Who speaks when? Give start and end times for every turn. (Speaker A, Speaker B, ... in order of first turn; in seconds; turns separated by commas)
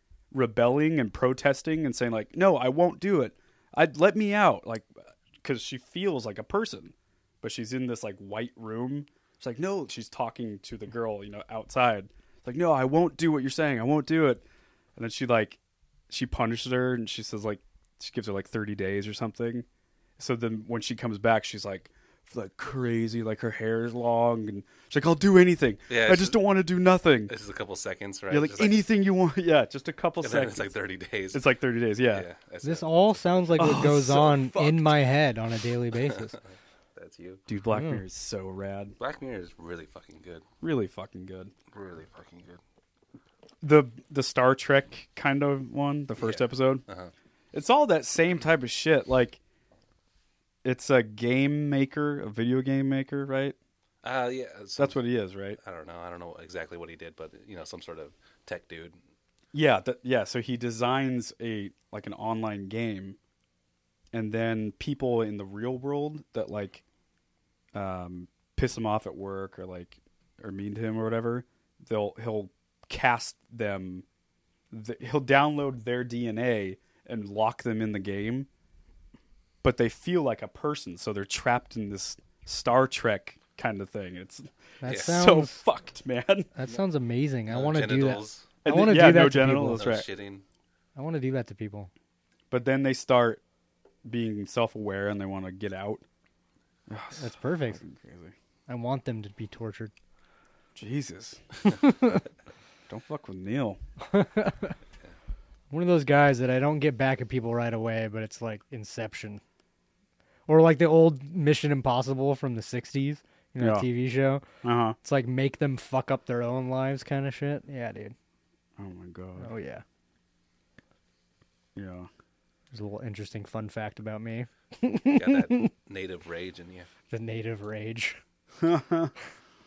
Speaker A: 0.3-4.9, Speaker A: 5.4-14.4, Speaker A: 15.0-15.6, Speaker A: 16.1-19.7, Speaker A: 20.2-27.3, Speaker B: 25.9-26.4, Speaker B: 27.3-28.8, Speaker A: 28.3-30.7, Speaker B: 30.2-31.4, Speaker A: 31.3-32.3, Speaker B: 32.1-34.9, Speaker C: 32.6-36.4, Speaker A: 33.6-34.4, Speaker B: 36.0-37.4, Speaker A: 37.5-39.0, Speaker C: 37.7-38.0, Speaker B: 39.0-40.5, Speaker A: 40.6-41.5, Speaker B: 41.7-42.6, Speaker A: 43.6-46.8, Speaker B: 46.2-47.1, Speaker A: 47.5-49.4, Speaker A: 50.6-53.6, Speaker B: 54.0-55.0, Speaker A: 54.8-55.6, Speaker B: 55.6-59.0, Speaker A: 59.5-63.2, Speaker A: 64.1-66.8, Speaker A: 67.7-74.0, Speaker A: 74.7-78.5, Speaker A: 79.6-86.5, Speaker C: 84.8-85.6, Speaker B: 84.9-85.2, Speaker C: 86.5-89.8, Speaker B: 87.5-88.5, Speaker A: 88.6-90.1, Speaker B: 89.8-90.4, Speaker C: 91.0-91.9, Speaker A: 92.5-93.4, Speaker A: 94.0-96.0, Speaker A: 96.9-98.3, Speaker C: 97.2-97.8, Speaker C: 98.7-99.9, Speaker A: 100.8-101.8, Speaker A: 102.9-103.8, Speaker C: 104.0-104.8, Speaker C: 105.7-109.4, Speaker C: 110.5-114.5, Speaker A: 113.6-113.9, Speaker A: 114.6-115.0, Speaker C: 115.0-118.2, Speaker A: 118.8-119.5, Speaker C: 119.4-119.8, Speaker A: 121.8-122.1, Speaker C: 122.7-125.7, Speaker B: 125.2-126.9, Speaker C: 127.1-128.2, Speaker A: 128.6-129.1